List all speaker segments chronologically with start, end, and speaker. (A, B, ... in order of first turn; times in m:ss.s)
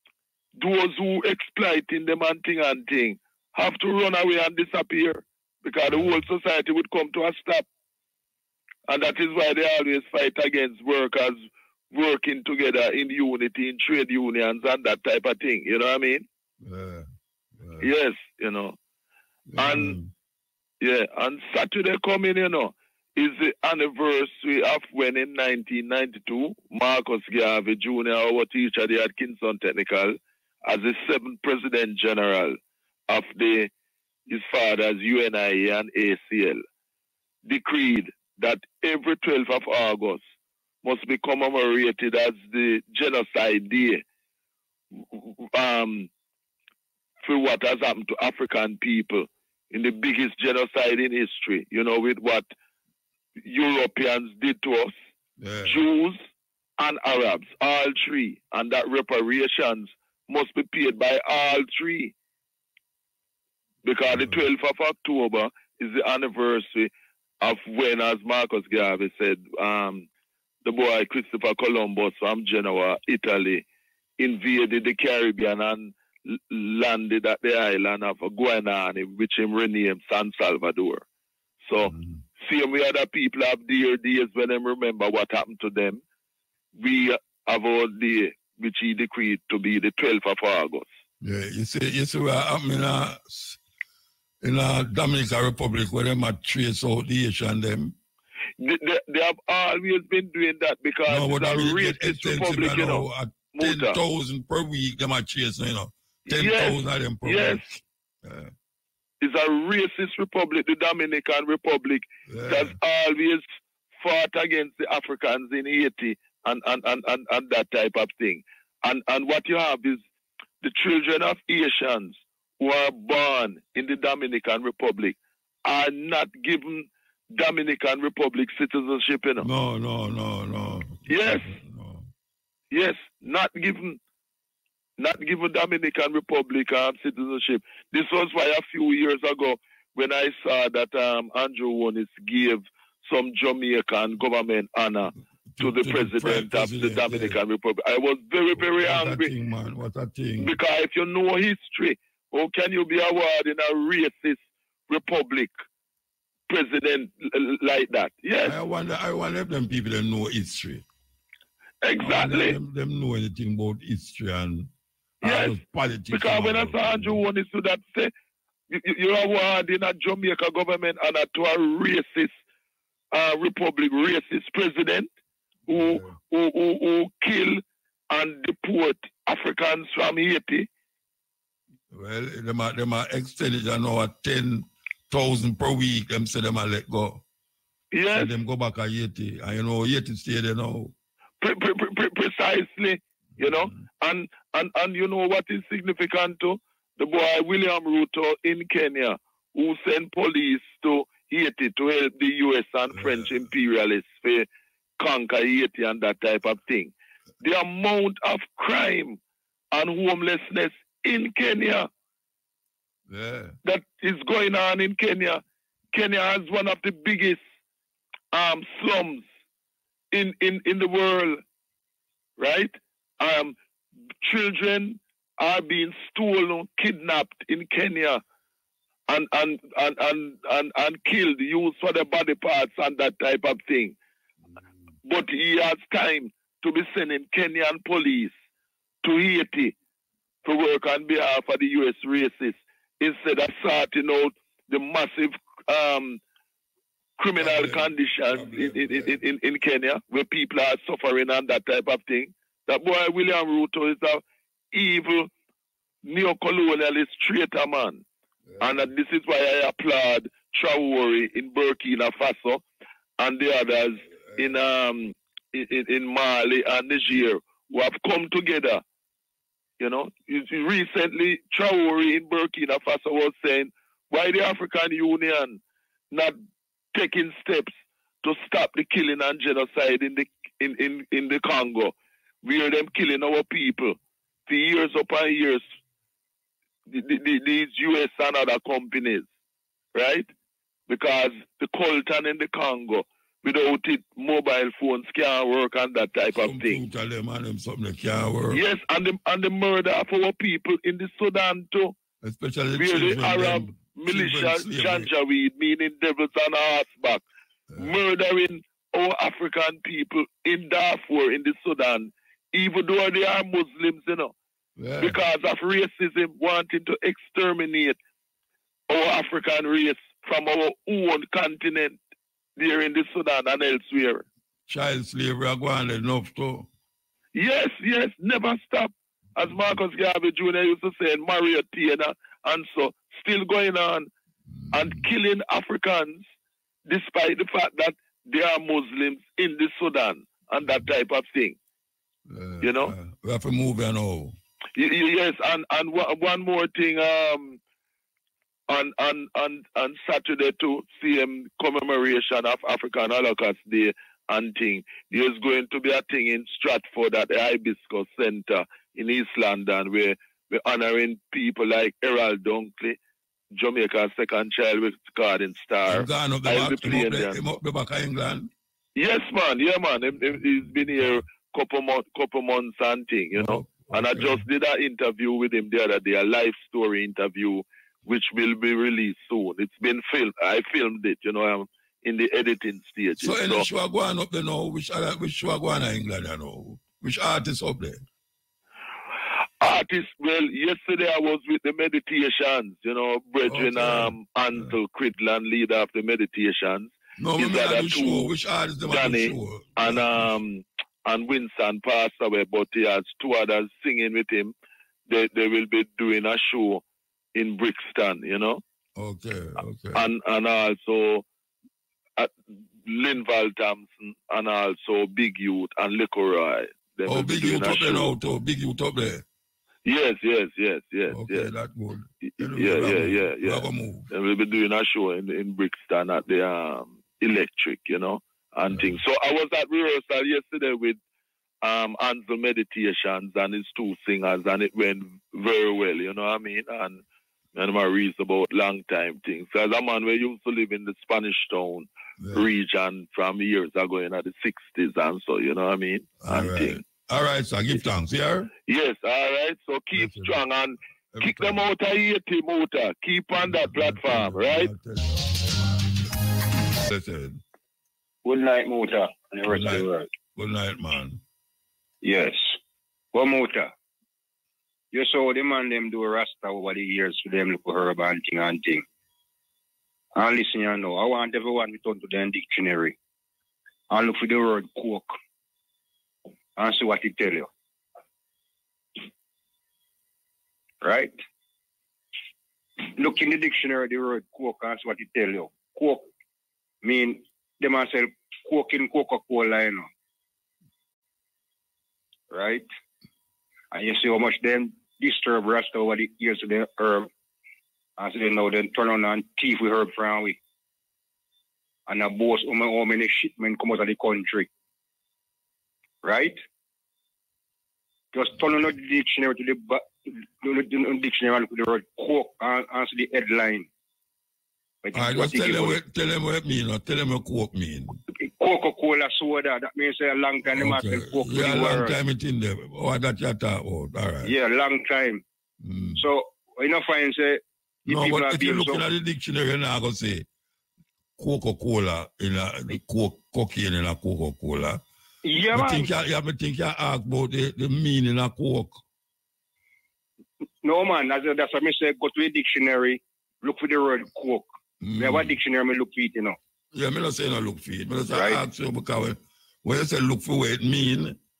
0:00.6-0:07.6 A
0:05.9-0:06.3 B
0:08.9-0:11.4 A
0:11.9-0:16.2 A
0:16.6-0:17.9 B
0:17.8-0:18.8 A
0:19.5-0:20.1 B
0:19.6-0:20.0 A
0:20.8-0:32.6 A
0:33.1-0:33.7 A
0:34.3-0:36.6 A
0:37.4-0:40.2 A
0:40.8-0:44.0 A
0:45.1-0:46.1 A
0:47.2-0:52.5 A
0:53.4-0:54.9 A
0:55.4-0:55.8 B
0:55.6-0:56.2 A
0:56.8-1:02.1 A
1:03.8-1:06.9 A
1:04.1-1:04.5 B
1:07.4-1:10.1 A
1:10.6-1:13.6 A
1:14.2-1:21.0 A
1:21.6-1:26.0 A
1:21.8-1:22.2 B
1:26.8-1:30.8 A
1:31.2-1:33.6 B
1:34.4-1:37.9 B
1:38.6-1:44.0 A
1:41.1-1:48.5 B
1:46.2-1:47.6 A
1:49.2-1:53.4 A
1:52.3-1:52.8 B
1:54.0-2:00.0 A
2:00.6-2:09.5 A
2:09.4-2:12.1 B
2:11.1-2:11.5 A
2:12.7-2:14.0 A
2:15.0-2:29.3 A
2:25.6-2:27.4 B
2:28.5-2:30.5 B
2:30.4-2:35.5 A
2:36.5-2:38.5 A
2:38.4-2:40.8 B
2:41.8-2:42.6 A
2:42.0-2:44.7 B
2:45.2-2:45.6 A
2:45.2-2:47.2 B
2:46.1-2:48.1 A
2:48.7-2:52.3 A
2:53.1-2:55.1 A
2:55.7-3:00.7 A
2:55.7-2:56.2 B
3:01.9-3:07.2 B
3:07.9-3:08.3 A
3:08.1-3:10.9 B
3:11.4-3:24.5 A
3:13.4-3:13.8 B
3:22.9-3:23.5 B
3:25.0-3:29.2 A
3:29.7-3:31.9 A
3:33.1-3:33.6 B
3:33.6-3:35.4 A
3:35.9-3:37.4 A
3:38.3-3:39.2 A
3:40.1-3:41.4 A
3:42.4-3:43.6 A
3:44.2-3:48.2 A
3:49.1-3:54.0 A
3:55.0-3:58.3 A
3:59.0-3:59.7 A
4:00.4-4:06.2 A
4:07.2-4:15.3 A
4:07.4-4:09.2 B
4:16.0-4:18.0 A
4:18.5-4:18.9 B
4:18.6-4:22.6 A
4:23.2-4:28.8 A
4:24.1-4:24.6 B
4:29.8-4:35.6 A
4:36.1-4:36.4 A
4:36.9-4:44.0 A
4:44.5-4:45.6 A
4:46.9-4:49.3 A
4:49.9-4:50.3 A
4:50.9-4:56.8 A
4:56.3-4:58.6 B
4:58.5-5:01.9 A
5:02.2-5:05.1 B
5:02.8-5:07.2 A
5:07.7-5:08.0 B
5:07.8-5:14.3 A
5:14.8-5:15.2 B
5:15.0-5:18.0 A
5:18.9-5:22.0 A
5:22.6-5:24.2 A
5:24.7-5:26.7 B
5:27.3-5:34.1 A
5:29.4-5:29.8 B
5:34.5-5:35.1 B
5:34.7-5:36.2 A
5:36.8-5:41.6 A
5:40.6-5:40.9 B
5:42.3-5:44.3 B
5:42.6-5:42.9 A
5:44.8-5:47.6 A
5:48.7-6:03.0 A
6:03.5-6:07.4 A
6:05.9-6:08.5 B
6:09.0-6:23.7 A
6:13.3-6:14.4 B
6:23.2-6:28.0 B
6:29.6-6:38.3 A
6:33.4-6:34.7 B
6:37.2-6:40.4 B
6:38.9-6:44.5 A
6:45.1-6:46.8 A
6:47.3-6:48.6 A
6:49.0-6:50.1 B
6:49.9-6:51.2 A
6:52.8-6:58.1 A
6:57.1-6:59.2 B
6:59.8-7:01.5 A
7:01.1-7:04.1 B
7:02.2-7:11.0 A
7:08.7-7:09.0 B
7:11.6-7:17.0 A
7:17.5-7:26.8 A
7:22.2-7:22.5 B
7:26.2-7:28.5 B
7:28.6-7:34.7 A
7:29.9-7:30.4 B
7:31.1-7:31.7 B
7:33.3-7:36.0 B
7:36.6-7:37.4 B
7:38.2-7:40.1 C
7:39.4-7:41.2 B
7:42.0-7:42.5 C
7:43.1-7:43.7 C
7:44.9-7:48.8 C
7:50.2-7:53.0 C
7:53.9-7:55.1 C
7:56.6-7:57.5 C
8:00.8-8:01.1 C
8:02.9-8:06.0 C
8:06.8-8:09.9 C
8:12.3-8:12.7 C
8:13.7-8:17.1 C
8:18.0-8:20.4 C
8:21.9-8:24.5 C
8:26.0-8:26.4 C
8:28.1-8:33.7 C
8:34.8-8:35.8 C
8:34.9-8:38.0 B
8:38.4-8:41.9 C
8:40.4-8:44.3 B
8:44.2-8:45.2 C
8:45.6-8:46.0 B
8:46.0-8:48.8 C
8:47.8-8:50.2 B
8:51.2-8:54.8 B
8:55.2-8:55.9 C
8:55.5-8:58.8 B
9:00.6-9:04.4 C
9:04.8-9:05.4 B
9:05.0-9:06.4 C
9:06.7-9:11.2 B
9:08.1-9:08.4 C